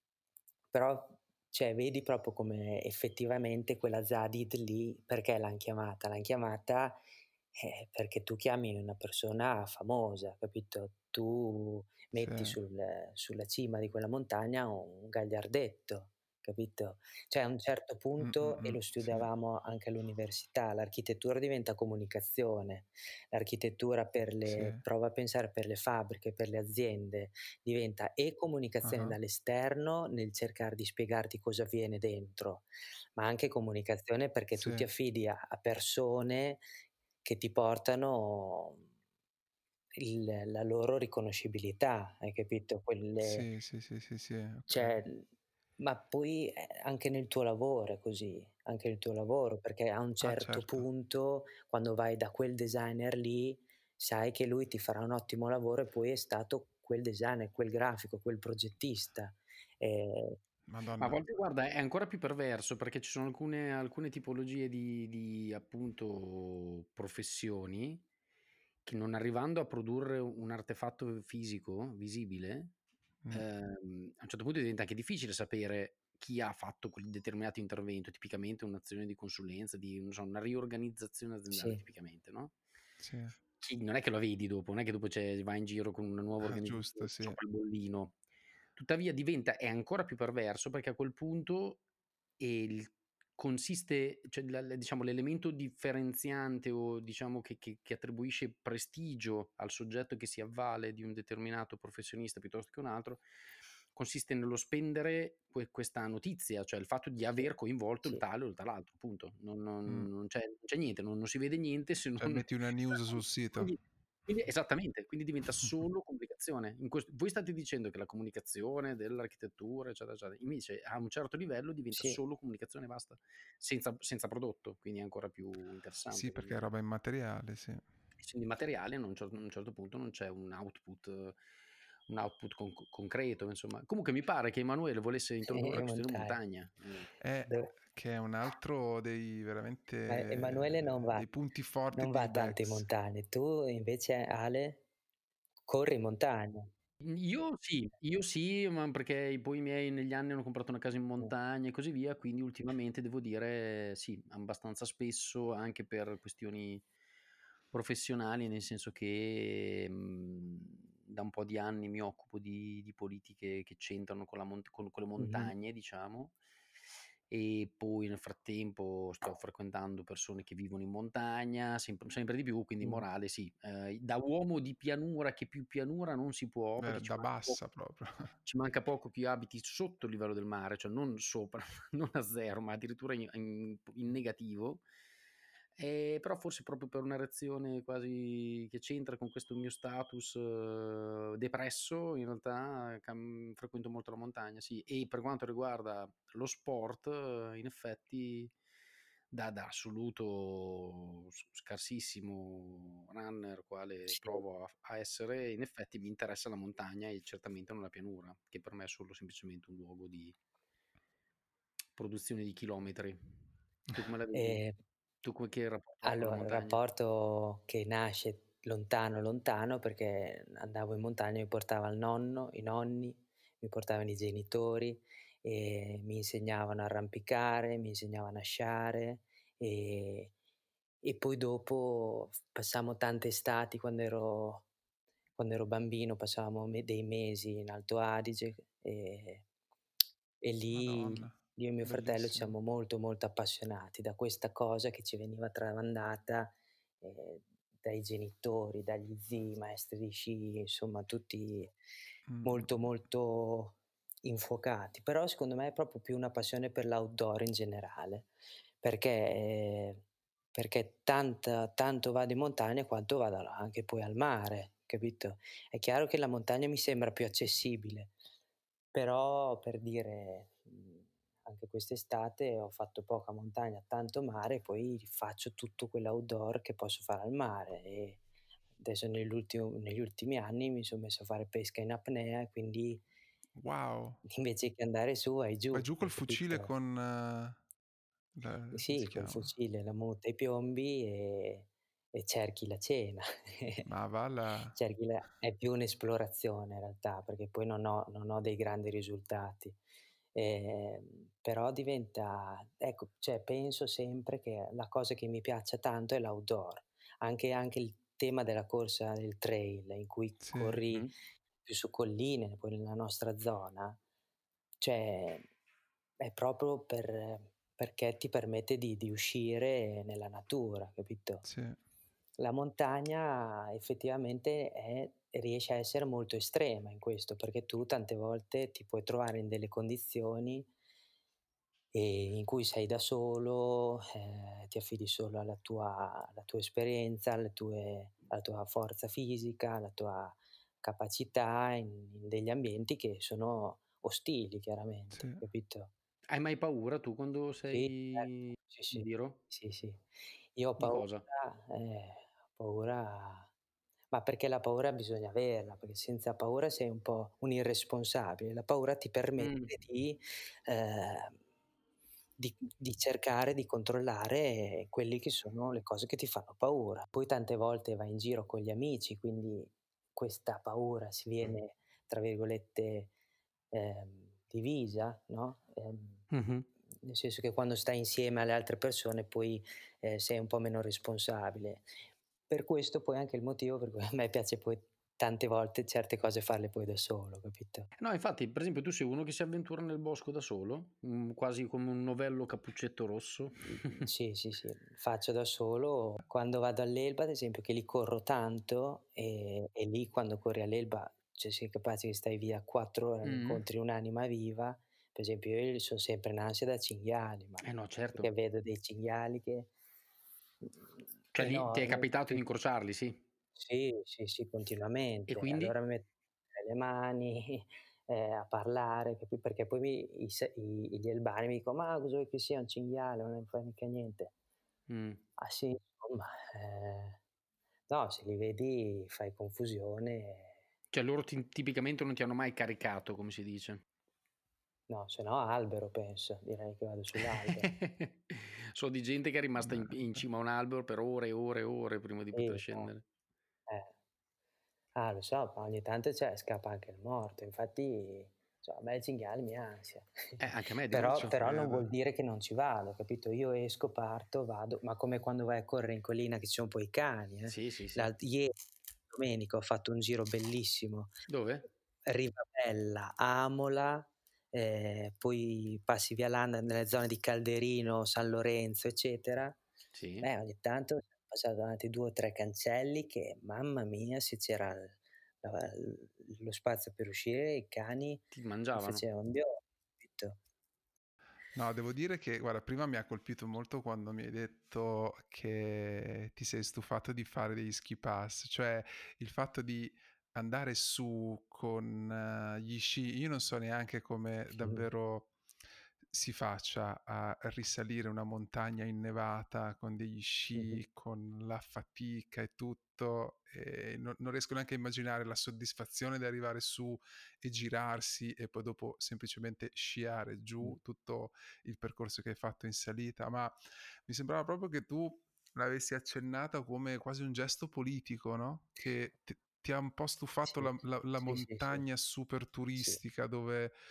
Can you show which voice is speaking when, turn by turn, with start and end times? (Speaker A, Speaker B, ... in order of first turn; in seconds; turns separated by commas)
Speaker A: 0.7-7.0, Speaker A: 7.5-36.6, Speaker B: 12.1-12.6, Speaker B: 18.2-19.3, Speaker B: 24.4-24.8, Speaker B: 28.8-29.2, Speaker B: 34.6-34.9, Speaker A: 37.2-38.9, Speaker A: 40.0-43.5, Speaker B: 43.2-45.0, Speaker A: 44.7-45.3, Speaker A: 45.8-60.4, Speaker B: 50.2-50.9, Speaker B: 60.7-61.3, Speaker C: 61.0-68.0, Speaker C: 68.8-72.7, Speaker C: 73.3-82.5, Speaker A: 81.5-81.8, Speaker B: 83.0-83.4, Speaker C: 83.6-88.1, Speaker B: 86.4-87.4, Speaker C: 88.8-91.8, Speaker C: 92.4-103.2, Speaker C: 103.9-126.6, Speaker B: 112.2-113.7, Speaker A: 121.9-122.2, Speaker B: 126.1-127.8, Speaker C: 128.2-131.4, Speaker C: 132.1-137.1, Speaker A: 135.4-136.4, Speaker B: 137.2-142.9, Speaker A: 137.4-137.7, Speaker A: 140.1-141.3, Speaker A: 141.9-144.8, Speaker A: 145.7-146.7, Speaker C: 147.0-156.9, Speaker C: 157.7-166.4, Speaker A: 165.2-165.5, Speaker C: 167.3-177.6, Speaker B: 176.8-178.3, Speaker C: 178.4-184.8, Speaker C: 185.8-198.5, Speaker C: 199.3-210.4, Speaker A: 204.1-204.4, Speaker C: 211.9-213.2, Speaker C: 213.9-214.6, Speaker A: 214.3-214.7, Speaker C: 215.2-216.8, Speaker A: 216.0-230.3, Speaker A: 231.0-234.7, Speaker A: 235.4-239.4, Speaker A: 240.4-251.7, Speaker B: 240.7-242.6, Speaker B: 252.3-252.9, Speaker A: 252.4-258.3, Speaker A: 258.8-268.1, Speaker A: 268.9-278.2, Speaker A: 278.8-283.0, Speaker B: 283.6-284.2, Speaker A: 284.3-286.7, Speaker B: 285.7-287.6, Speaker B: 288.4-289.5, Speaker A: 288.7-293.9, Speaker B: 293.9-294.8, Speaker A: 294.7-299.8, Speaker A: 300.3-311.1, Speaker B: 310.4-310.8, Speaker A: 311.6-314.0, Speaker A: 314.8-315.4, Speaker A: 316.2-321.4, Speaker B: 321.4-321.8, Speaker A: 322.4-330.7, Speaker A: 331.9-345.9, Speaker B: 345.1-345.4, Speaker C: 346.3-349.4, Speaker A: 347.7-353.5, Speaker C: 350.8-351.2, Speaker A: 354.1-361.4, Speaker C: 359.4-359.7, Speaker A: 362.4-373.1, Speaker A: 373.7-376.2, Speaker C: 376.3-376.7, Speaker A: 377.0-381.9, Speaker A: 382.5-387.9, Speaker C: 388.0-394.1, Speaker A: 393.7-409.7, Speaker C: 403.2-403.6, Speaker C: 407.6-408.3, Speaker C: 411.3-413.2, Speaker A: 411.4-412.4, Speaker A: 413.6-424.3, Speaker C: 415.3-415.7, Speaker C: 424.9-425.2, Speaker A: 425.4-427.2, Speaker A: 427.9-430.6, Speaker C: 430.9-433.8, Speaker A: 434.9-437.7, Speaker C: 437.1-443.0, Speaker B: 439.6-439.9, Speaker A: 442.3-442.9, Speaker A: 444.9-458.5, Speaker C: 450.4-451.9, Speaker B: 451.1-451.6, Speaker C: 457.5-458.1, Speaker A: 459.1-461.1, Speaker C: 461.3-461.7, Speaker A: 462.1-469.6, Speaker C: 469.9-470.3, Speaker A: 470.2-480.4, Speaker C: 478.3-479.1, Speaker B: 481.5-495.3, Speaker A: 494.6-494.9, Speaker B: 496.1-513.5, Speaker A: 500.6-500.8, Speaker B: 514.1-523.7, Speaker A: 520.5-521.9